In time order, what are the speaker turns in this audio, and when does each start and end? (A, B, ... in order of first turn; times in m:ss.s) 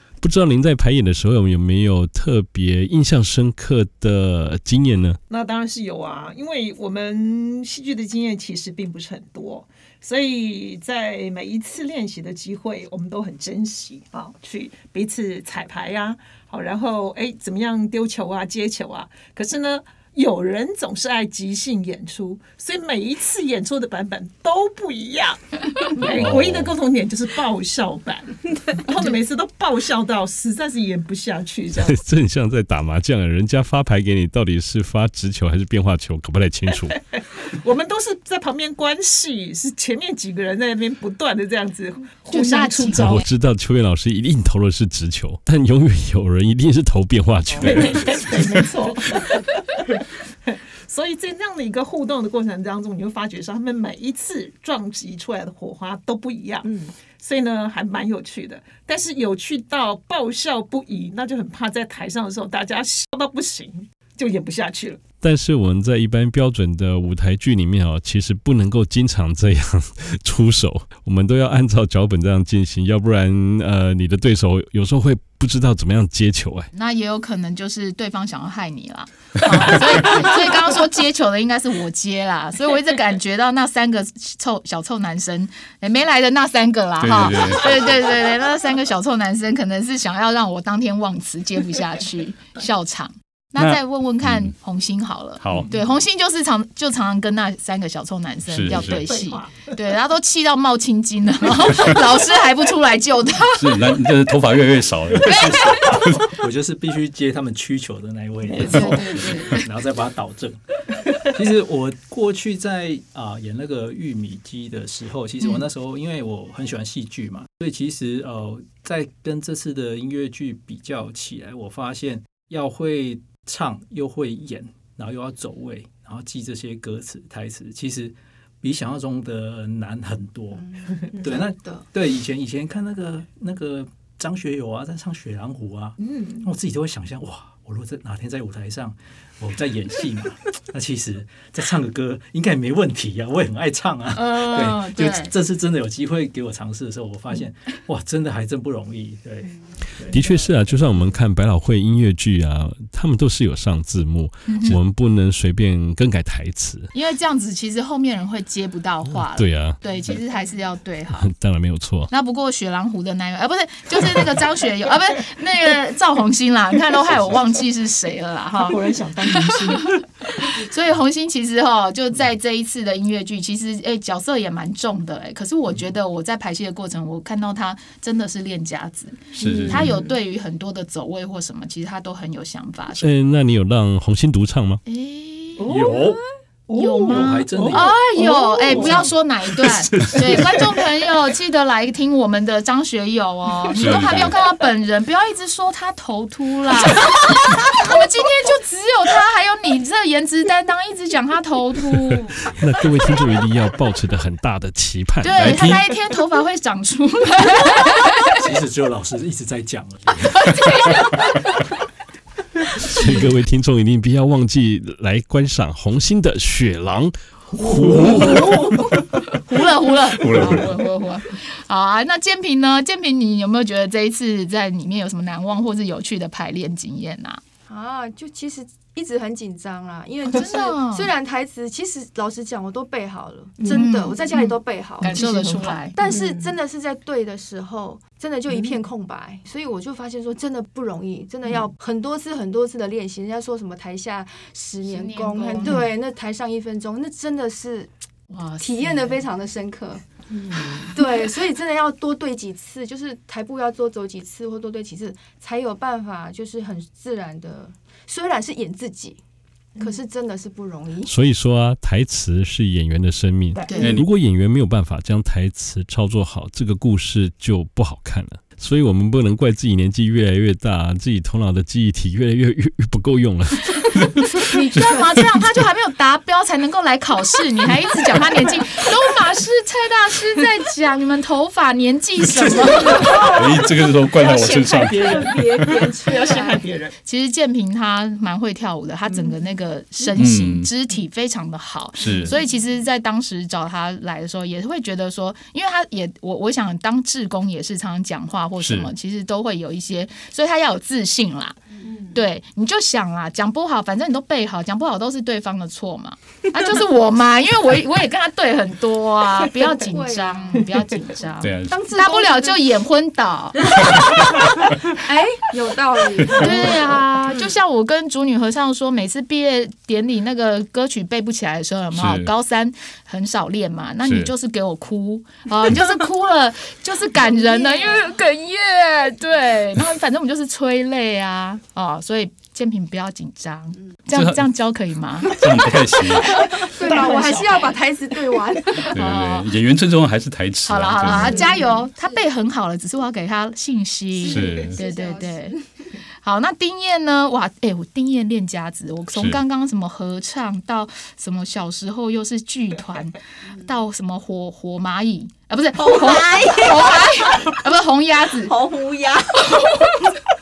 0:00.2-0:05.2 A
0:05.3-0:32.0 B
0:26.3-0:26.7 C
0:31.8-0:36.9 A
0:36.9-0:43.3 B
0:42.3-0:43.2 D
0:42.9-0:48.2 A
0:47.5-1:05.0 B
1:05.2-1:16.7 A
1:16.7-1:44.1 D
1:27.0-1:27.8 C
1:38.5-1:38.9 C
1:38.6-1:39.7 B
1:43.6-1:46.2 C
1:45.2-1:45.9 D
1:45.4-1:50.6 E
1:48.5-1:48.8 B
1:48.6-1:49.7 D
1:51.3-2:30.3 E
2:10.5-2:11.8 F
2:16.0-2:16.5 B
2:24.1-2:25.3 D
2:30.1-2:36.9 A
2:34.5-2:34.8 D
2:36.9-2:41.3 D
2:39.1-2:39.8 A
2:41.1-2:42.1 A
2:42.1-3:03.1 D
2:48.6-2:50.0 B
2:59.4-2:59.8 C
2:59.8-3:00.1 G
3:03.0-3:04.8 A
3:04.8-3:05.7 D
3:05.6-3:09.1 B
3:05.7-3:06.2 E
3:06.7-3:22.4 D
3:07.1-3:07.8 E
3:13.8-3:14.3 C
3:22.5-3:25.8 A
3:25.2-3:28.4 D
3:28.3-3:30.5 E
3:30.3-3:31.7 D
3:32.8-3:33.1 D
3:32.9-3:38.5 A
3:38.0-3:47.4 D
3:40.2-3:40.7 C
3:47.7-4:07.9 F
3:50.2-3:51.1 D
3:53.6-3:53.9 B
3:53.7-3:54.2 D
3:55.0-3:56.0 B
3:55.0-3:56.0 D
3:56.1-3:56.5 G
4:04.9-4:05.8 D
4:08.3-4:09.2 D
4:08.6-4:19.2 F
4:19.8-4:21.1 F
4:21.0-4:34.3 A
4:23.6-4:23.9 F
4:23.7-4:24.0 D
4:23.8-4:24.0 C
4:34.4-4:43.2 D
4:42.2-4:45.8 C
4:42.8-4:43.4 B
4:43.3-4:43.8 F
4:44.1-4:46.9 B
4:45.7-4:46.6 F
4:46.2-5:01.6 D
4:50.2-4:50.7 C
4:52.0-4:52.3 C
4:58.6-4:58.9 C
5:02.1-5:14.3 D
5:09.6-5:10.6 F
5:11.4-5:11.8 C
5:11.6-5:12.6 F
5:13.8-5:17.0 F
5:16.4-5:35.4 D
5:21.9-5:22.3 C
5:24.0-5:24.3 C
5:27.5-5:28.0 F
5:34.1-5:34.4 C
5:35.3-5:36.4 C
5:35.4-5:39.0 F
5:36.8-5:37.8 B
5:38.8-5:39.5 D
5:38.9-5:41.3 C
5:40.6-5:45.6 D
5:41.1-5:41.9 F
5:44.2-5:45.5 F
5:44.3-5:44.8 C
5:46.2-5:58.6 D
5:55.8-5:57.0 G
5:58.4-5:59.4 G
5:59.5-6:00.1 D